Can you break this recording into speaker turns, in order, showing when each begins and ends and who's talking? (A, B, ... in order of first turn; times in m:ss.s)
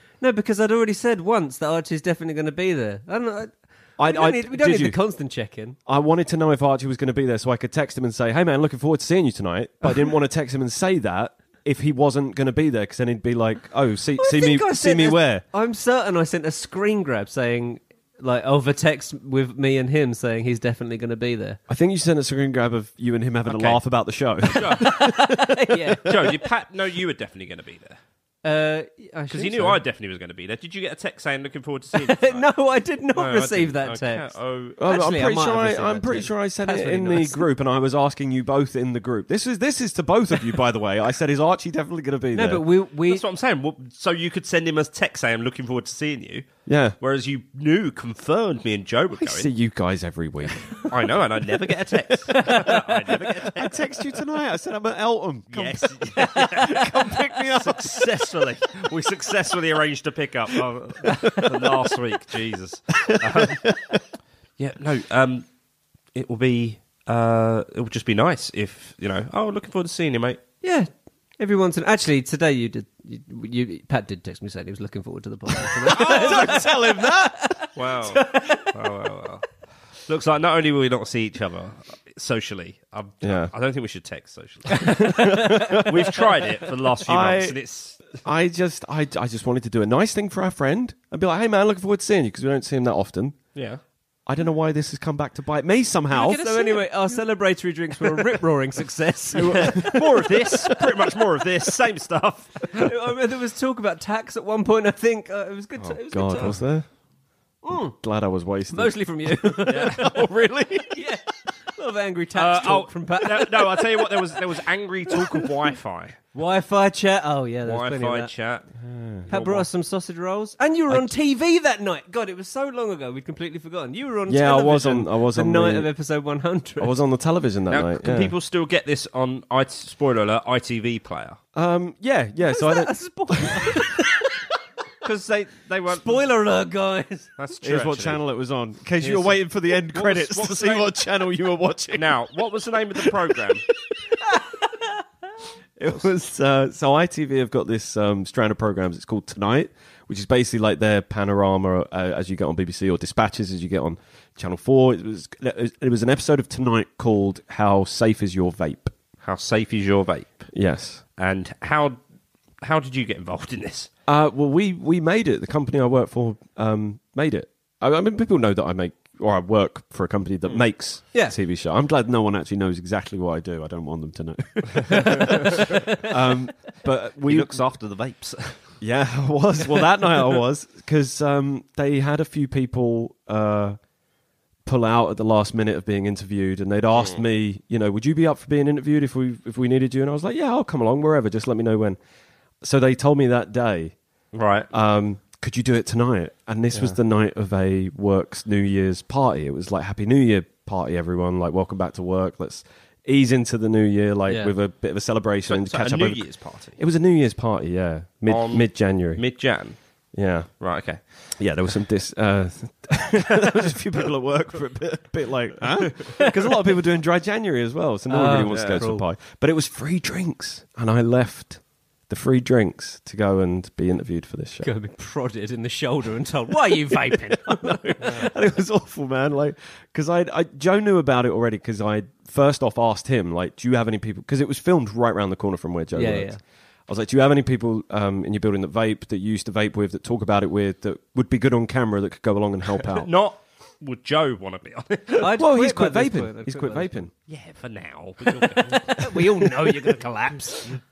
0:00.2-0:05.8 A
0:04.0-0:05.0 B
0:05.8-0:15.4 B
0:14.2-0:21.6 A
0:21.7-0:25.4 B
0:23.4-0:23.8 C
0:24.5-0:25.1 C
0:24.8-0:26.4 A
0:26.0-0:28.0 C
0:28.4-0:29.8 A
0:29.3-0:32.4 C
0:31.9-0:34.3 A
0:33.2-0:34.8 C
0:34.8-0:42.6 B
0:34.8-0:37.5 A
0:42.3-0:43.2 A
0:43.1-0:46.5 C
0:46.6-0:47.0 B
0:47.0-0:49.5 C
0:49.2-0:50.7 B
0:50.8-0:53.9 C
0:52.3-0:52.8 A
0:53.3-0:58.1 B
0:55.5-1:03.7 C
1:04.6-1:05.4 C
1:06.1-1:10.4 C
1:10.6-1:18.7 A
1:15.8-1:17.6 B
1:15.9-1:16.6 C
1:17.7-1:19.5 C
1:20.0-1:28.2 C
1:23.2-1:23.5 B
1:24.9-1:26.2 B
1:24.9-1:25.4 A
1:27.0-1:27.6 B
1:28.1-1:33.5 B
1:33.5-1:33.8 C
1:34.2-1:36.4 B
1:36.1-1:37.2 C
1:36.1-1:39.9 A
1:39.3-1:40.1 B
1:39.3-1:42.9 C
1:42.7-1:46.6 A
1:45.8-1:46.9 B
1:47.6-1:48.0 A
1:48.0-1:51.1 B
1:48.7-1:50.0 A
1:49.7-1:50.2 C
1:50.9-1:54.1 A
1:52.3-1:56.2 C
1:56.3-1:58.3 A
1:57.6-1:58.6 C
1:58.8-1:59.3 B
1:59.3-1:59.7 C
1:59.3-2:07.0 A
2:04.3-2:05.9 B
2:06.8-2:08.3 B
2:07.7-2:11.4 C
2:11.5-2:13.7 B
2:12.5-2:14.4 A
2:15.0-2:16.2 C
2:15.9-2:17.3 A
2:17.4-2:18.2 C
2:17.6-2:22.2 B
2:19.0-2:19.3 C
2:19.9-2:20.9 C
2:21.9-2:23.6 C
2:24.2-2:24.9 A
2:25.8-2:38.9 B
2:39.2-2:40.5 C
2:40.5-2:41.0 B
2:41.2-2:42.0 C
2:42.6-2:43.9 C
2:44.1-2:57.6 B
2:57.2-2:58.6 C
2:58.8-3:03.8 B
3:04.6-3:12.0 B
3:12.6-3:14.0 B
3:14.3-3:14.7 C
3:14.7-3:29.2 B
3:24.3-3:24.5 A
3:25.4-3:26.8 C
3:28.2-3:29.8 C
3:30.1-3:30.5 B
3:30.6-3:31.4 C
3:31.4-3:44.7 B
3:38.1-3:39.0 A
3:38.5-3:38.8 C
3:44.6-3:48.2 A
3:47.1-3:56.3 B
3:55.9-3:56.4 A
3:56.9-4:03.1 B
4:02.8-4:05.3 C
4:05.2-4:06.9 A
4:05.3-4:07.1 B
4:07.3-4:09.1 C
4:08.7-4:10.8 A